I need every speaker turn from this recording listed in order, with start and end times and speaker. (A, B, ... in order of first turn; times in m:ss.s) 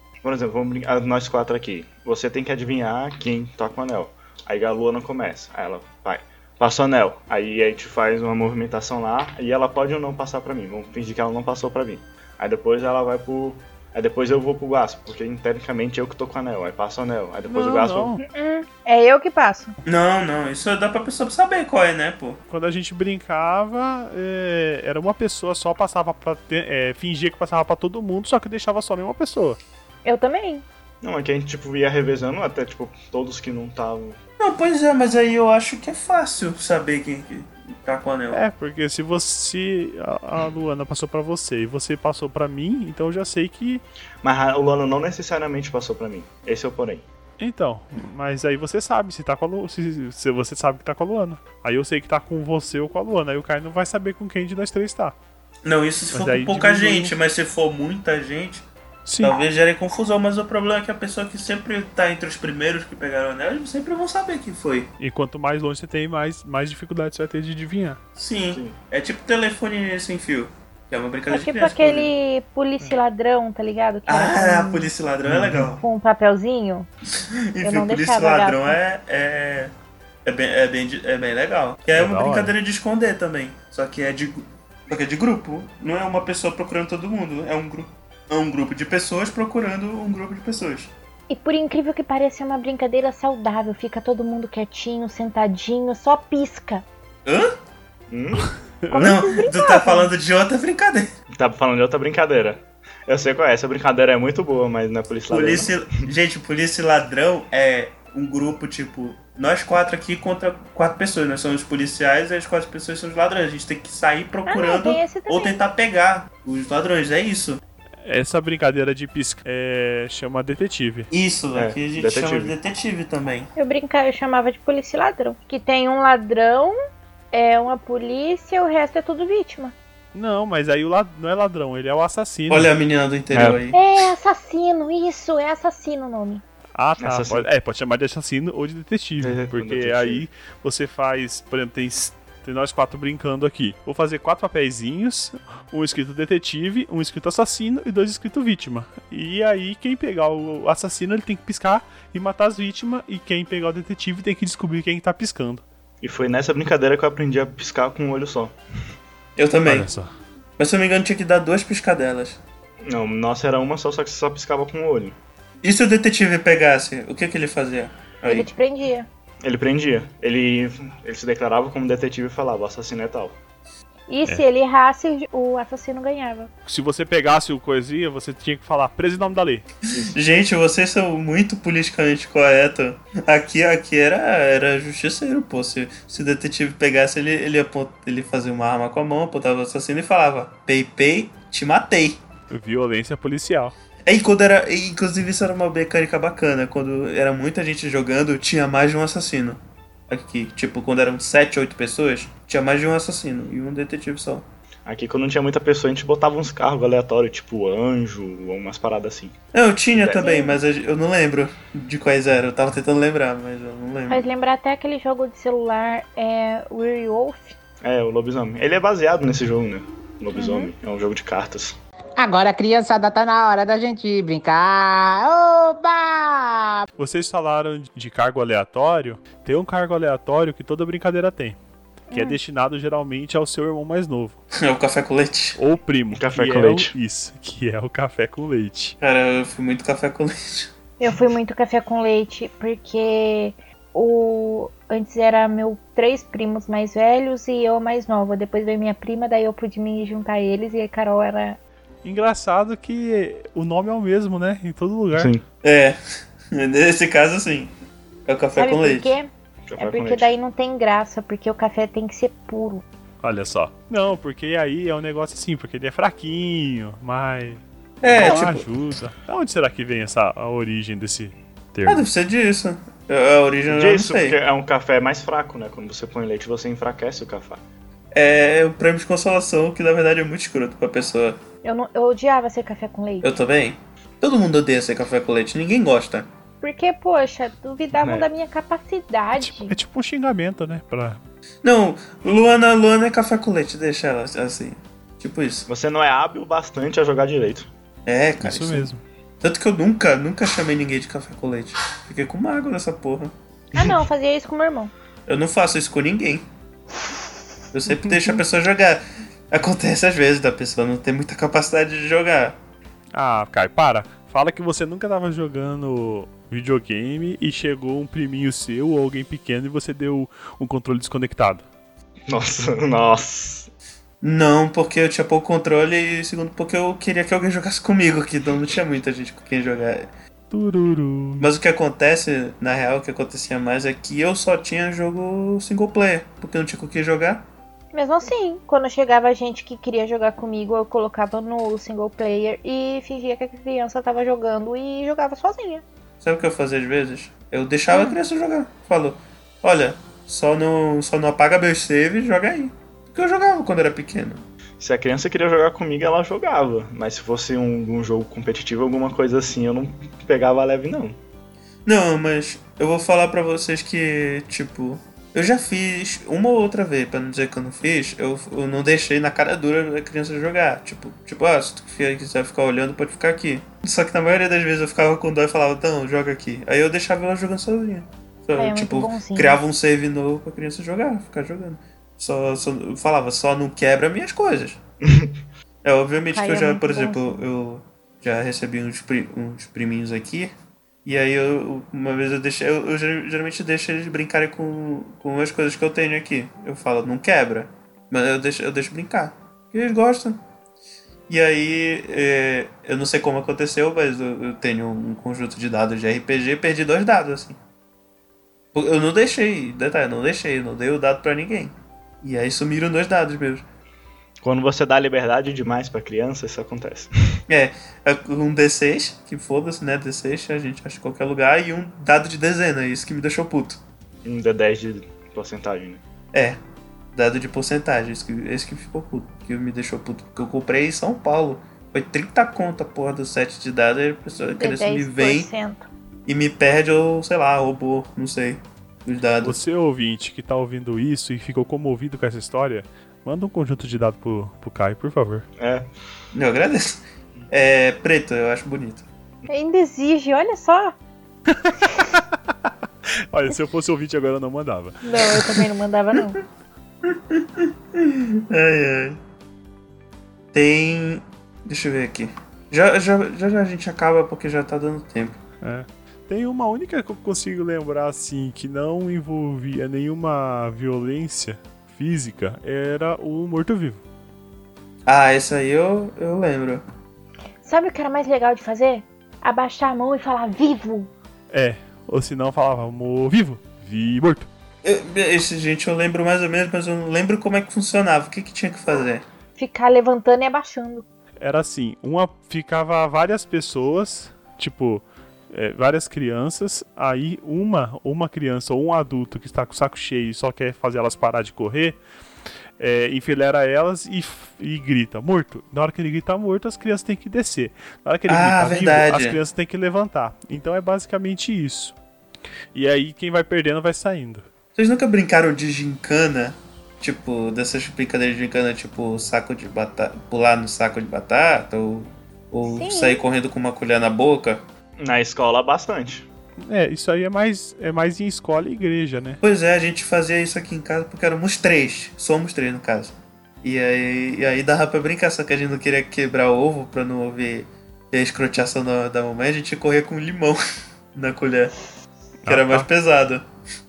0:00.2-0:18.2 A
0:17.5-0:18.2 B
0:18.2-0:19.8 C
0:19.8-0:22.4 D
0:22.5-0:29.6 B
0:30.0-0:30.6 C
0:31.0-0:34.2 A
0:34.4-0:38.4 D
0:38.3-0:43.8 B
0:44.2-0:47.0 A
0:47.4-0:55.2 B
0:55.6-0:58.6 D
0:56.1-0:57.1 B
0:59.1-0:59.4 B
0:59.2-1:04.9 D
1:05.0-1:08.0 B
1:08.2-1:12.1 D
1:11.3-1:14.9 C
1:14.1-1:15.8 D
1:15.3-1:15.7 B
1:15.8-1:16.9 C
1:17.2-1:19.7 D
1:17.6-1:18.8 C
1:20.2-1:30.9 D
1:22.0-1:22.5 B
1:31.3-1:36.8 C
1:37.3-1:37.5 D
1:38.1-1:38.5 A
1:38.8-1:39.1 B
1:38.9-1:40.1 C
1:38.9-1:41.1 D
1:41.3-1:45.7 A
1:45.3-1:57.6 D
1:54.5-1:55.6 C
1:58.0-2:01.1 B
2:01.1-2:03.5 D
2:01.6-2:02.6 A
2:03.6-2:06.8 C
2:07.3-2:09.8 C
2:10.1-2:12.7 B
2:12.5-2:13.8 D
2:13.3-2:13.6 A
2:13.7-2:16.4 C
2:16.8-2:35.6 B
2:17.0-2:17.5 A
2:19.2-2:20.2 A
2:36.0-2:38.6 A
2:39.4-2:39.9 D
2:39.7-2:40.1 B
2:40.6-2:42.4 D
2:42.8-2:45.2 A
2:45.6-2:48.5 D
2:48.2-2:49.1 C
2:49.4-2:53.4 A
2:54.1-2:56.5 C
2:56.7-2:59.7 B
3:00.0-3:12.2 D
3:12.5-3:13.7 B
3:14.1-3:24.4 D
3:24.9-3:29.4 A
3:29.5-3:34.2 D
3:29.9-3:30.3 A
3:30.1-3:30.6 C
3:34.1-3:37.6 C
3:37.8-3:41.8 A
3:40.3-3:40.7 C
3:42.2-3:46.9 E
3:47.0-3:51.6 B
3:52.1-3:52.4 C
3:52.1-3:54.4 B
3:54.6-3:55.6 D
3:55.6-3:59.0 B
3:56.1-3:56.9 A
3:59.0-4:00.7 D
4:01.0-4:11.6 C
4:12.0-4:15.3 B
4:15.1-4:15.4 A
4:15.6-4:16.0 D
4:16.5-4:17.7 D
4:18.3-4:19.1 D
4:18.6-4:22.8 C
4:19.7-4:20.3 A
4:23.2-4:32.1 B
4:28.0-4:28.7 D
4:31.9-4:34.4 D
4:33.7-4:37.6 A
4:38.1-4:41.4 D
4:41.6-4:43.3 C
4:43.2-4:46.3 D
4:46.6-4:49.8 C
4:47.9-4:48.3 A
4:49.4-4:51.2 B
4:51.6-4:55.7 D
4:55.7-4:57.7 A
4:58.1-4:58.9 D
4:58.4-4:59.0 B
4:59.4-5:03.3 D
5:03.8-5:04.9 C
5:05.3-5:06.4 D
5:07.7-5:12.6 D
5:08.1-5:08.4 B
5:13.2-5:21.6 B
5:22.3-5:23.7 A
5:24.2-5:30.1 D
5:30.5-5:31.5 B
5:31.4-5:37.4 D
5:37.9-5:45.8 C
5:46.2-5:54.4 D
5:47.9-5:48.2 C
5:54.8-6:01.2 A
6:01.9-6:24.8 D
6:18.6-6:19.6 C
6:25.0-6:25.4 A
6:25.8-6:30.5 D
6:26.3-6:27.4 C
6:31.0-6:40.4 D
6:41.3-6:47.6 D
6:48.8-6:53.6 D
6:54.4-6:57.4 A
6:57.5-7:03.8 D
7:04.2-7:06.0 A
7:06.3-7:06.6 D
7:07.1-7:15.5 D
7:14.6-7:15.9 C
7:16.3-7:19.6 D
7:19.4-7:25.5 B
7:25.6-7:25.9 A
7:26.3-7:29.1 D
7:29.5-7:31.0 C
7:31.5-7:32.7 B
7:33.3-7:35.5 B
7:35.0-7:36.4 C
7:37.0-7:39.2 D
7:40.5-7:45.4 D
7:45.6-7:54.0 B
7:55.1-7:56.8 D
7:57.6-8:01.1 C
8:01.5-8:04.5 B
8:04.8-8:09.2 D
8:09.6-8:11.0 C
8:11.4-8:22.0 B
8:22.8-8:32.0 B
8:28.3-8:29.4 D
8:32.7-8:34.5 B
8:34.8-8:44.6 D
8:42.6-8:43.2 C
8:45.0-8:46.3 A
8:46.7-8:49.4 B
8:49.4-9:00.6 D
9:01.2-9:01.7 D
9:02.4-9:02.9 B
9:02.5-9:03.4 D